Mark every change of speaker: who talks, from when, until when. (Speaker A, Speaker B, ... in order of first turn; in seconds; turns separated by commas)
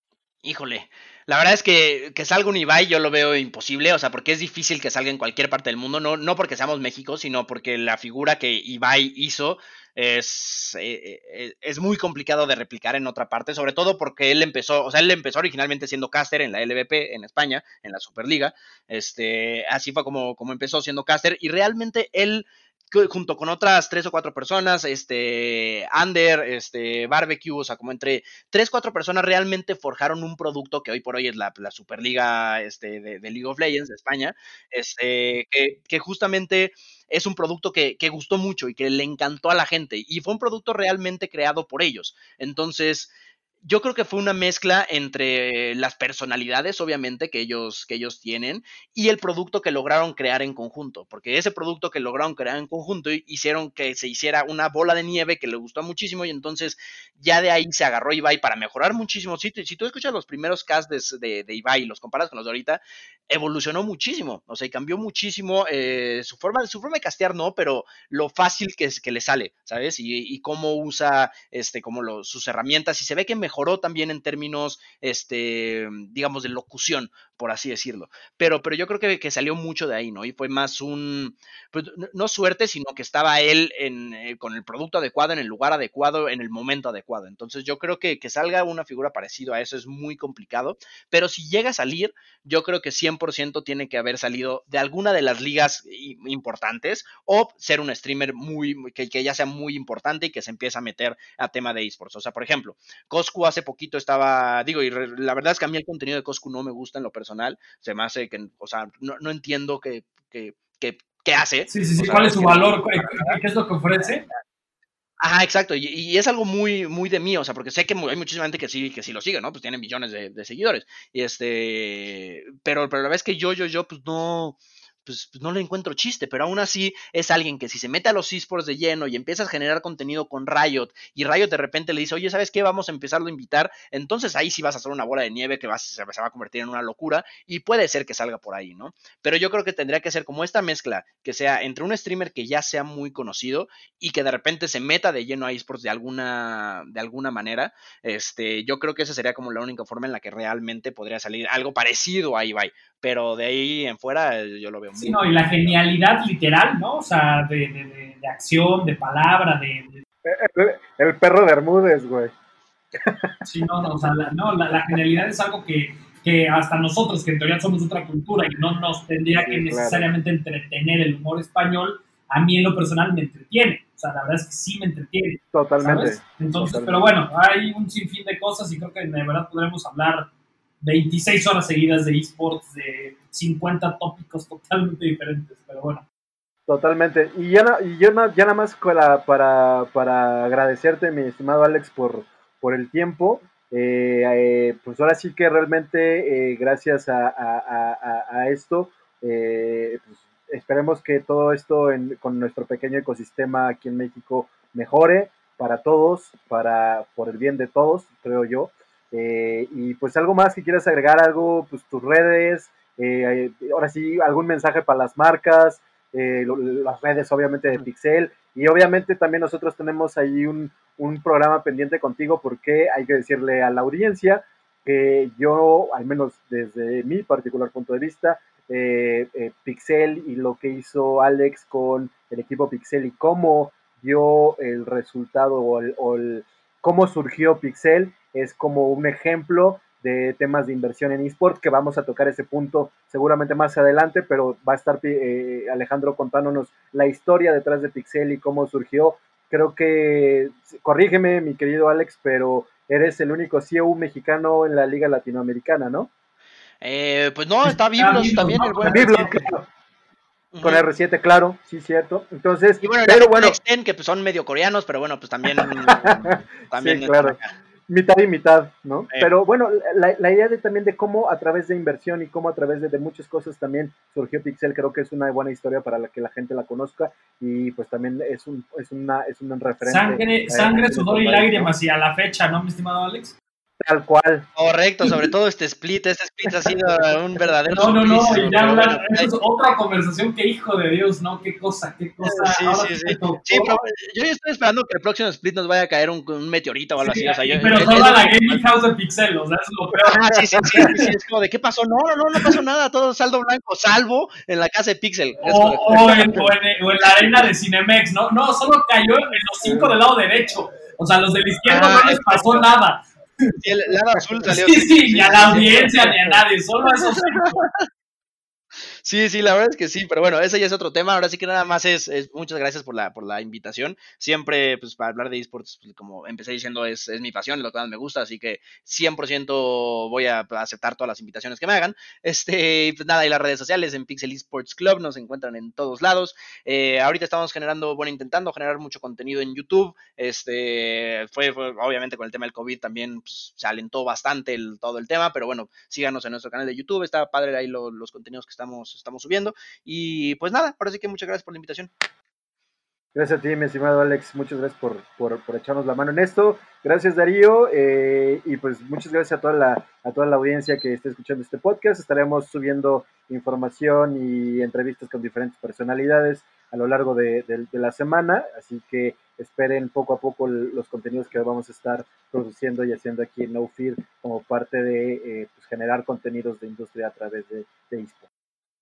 Speaker A: 0.4-43.1, Speaker A: 43.6-113.4, Speaker B: 111.7-114.2, Speaker A: 115.2-155.8, Speaker B: 154.9-160.0, Speaker C: 160.2-162.3, Speaker C: 163.0-163.4, Speaker B: 163.4-180.3, Speaker C: 169.3-170.1, Speaker C: 175.5-177.1, Speaker B: 180.8-186.0, Speaker C: 186.7-256.1, Speaker A: 256.8-259.4, Speaker B: 257.6-259.5, Speaker C: 258.9-259.6, Speaker A: 260.5-260.8, Speaker C: 260.6-263.6, Speaker A: 262.8-267.5, Speaker C: 265.5-281.7, Speaker B: 279.8-283.3, Speaker C: 283.8-284.5, Speaker A: 284.6-289.3, Speaker B: 287.7-293.8, Speaker A: 292.2-298.6, Speaker B: 297.0-301.1, Speaker A: 300.1-306.4, Speaker B: 305.4-313.6, Speaker A: 307.0-307.4, Speaker C: 309.6-309.9, Speaker A: 311.7-312.6, Speaker A: 313.6-316.1, Speaker B: 314.4-317.6, Speaker A: 316.9-317.8, Speaker A: 319.0-351.9, Speaker C: 353.1-378.3